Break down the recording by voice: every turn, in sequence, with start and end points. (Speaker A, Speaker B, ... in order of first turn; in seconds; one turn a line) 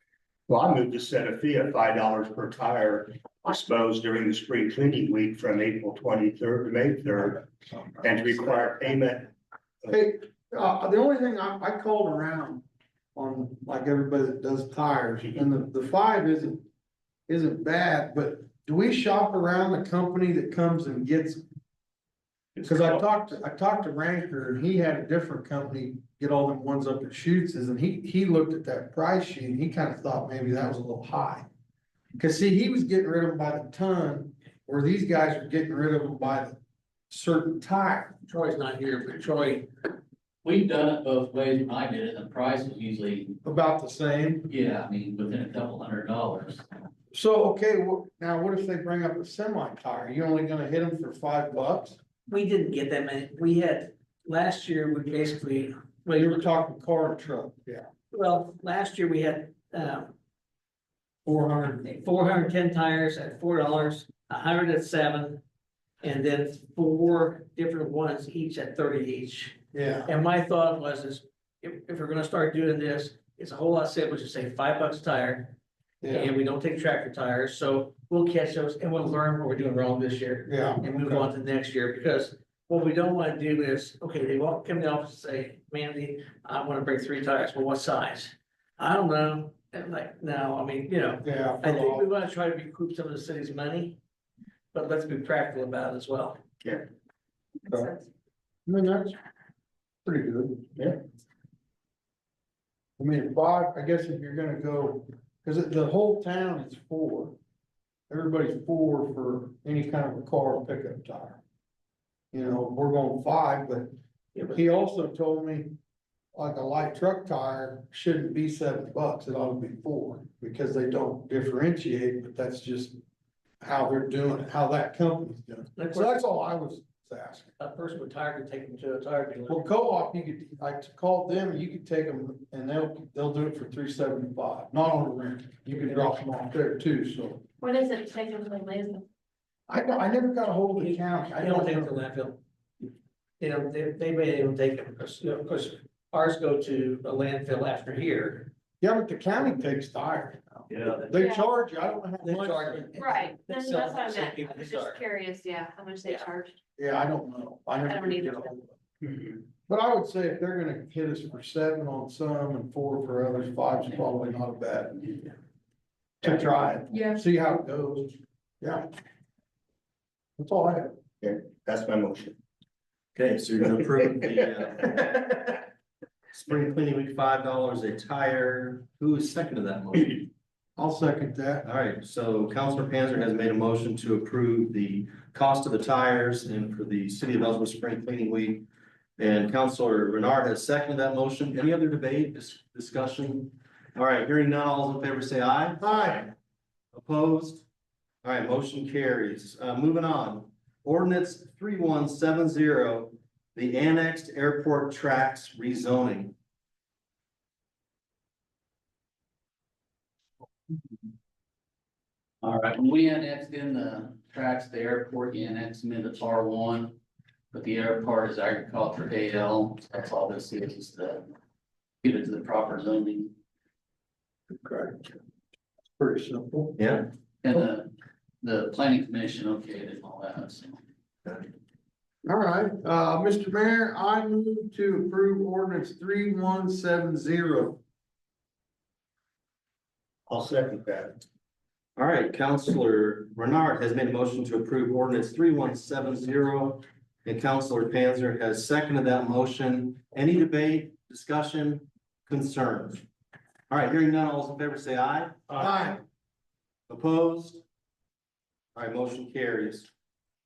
Speaker A: 0.5-7.5
Speaker A: 8.0-9.3
Speaker B: 9.9-16.6
Speaker B: 17.3-21.4
Speaker B: 22.6-31.5
Speaker B: 32.2-36.6
Speaker B: 37.1-38.2
Speaker C: 38.3-39.7
Speaker D: 40.4-43.4
Speaker B: 43.4-44.5
Speaker D: 44.5-46.7
Speaker B: 47.1-52.0
Speaker C: 52.3-56.5
Speaker B: 56.2-57.9
Speaker C: 58.1-60.1
Speaker B: 61.2-61.9
Speaker C: 61.9-65.4
Speaker C: 66.0-75.6
Speaker B: 69.7-70.1
Speaker B: 76.0-76.3
Speaker C: 76.1-94.0
Speaker B: 80.5-81.3
Speaker B: 91.2-92.1
Speaker C: 94.7-96.4
Speaker E: 97.7-98.0
Speaker B: 98.7-99.2
Speaker B: 100.0-100.8
Speaker B: 103.0-107.4
Speaker B: 108.1-111.4
Speaker B: 112.3-113.9
Speaker B: 114.5-115.8
Speaker B: 116.3-123.0
Speaker B: 123.6-127.5
Speaker C: 125.8-126.2
Speaker C: 127.6-129.7
Speaker B: 129.5-137.4
Speaker E: 137.6-139.1
Speaker B: 139.7-141.9
Speaker C: 140.8-142.4
Speaker C: 143.4-148.5
Speaker B: 148.8-152.9
Speaker C: 150.7-151.2
Speaker E: 151.1-151.5
Speaker C: 152.2-155.0
Speaker E: 153.0-156.6
Speaker B: 156.8-158.7
Speaker E: 157.8-158.5
Speaker B: 159.6-165.3
Speaker B: 166.2-168.9
Speaker B: 170.4-171.0
Speaker A: 171.2-172.4
Speaker F: 173.2-175.5
Speaker F: 176.3-180.3
Speaker B: 180.8-181.7
Speaker F: 181.7-188.6
Speaker F: 189.2-196.2
Speaker B: 195.8-196.3
Speaker F: 196.9-197.7
Speaker F: 198.2-206.3
Speaker D: 212.4-217.0
Speaker D: 217.5-221.2
Speaker D: 222.0-223.3
Speaker B: 224.5-225.2
Speaker B: 226.0-226.8
Speaker F: 226.8-227.1
Speaker D: 227.4-227.9
Speaker D: 228.4-230.8
Speaker B: 232.2-237.8
Speaker A: 240.3-241.2
Speaker F: 242.0-253.0
Speaker F: 253.7-255.6
Speaker B: 255.5-256.0
Speaker F: 256.9-257.6
Speaker F: 258.8-259.9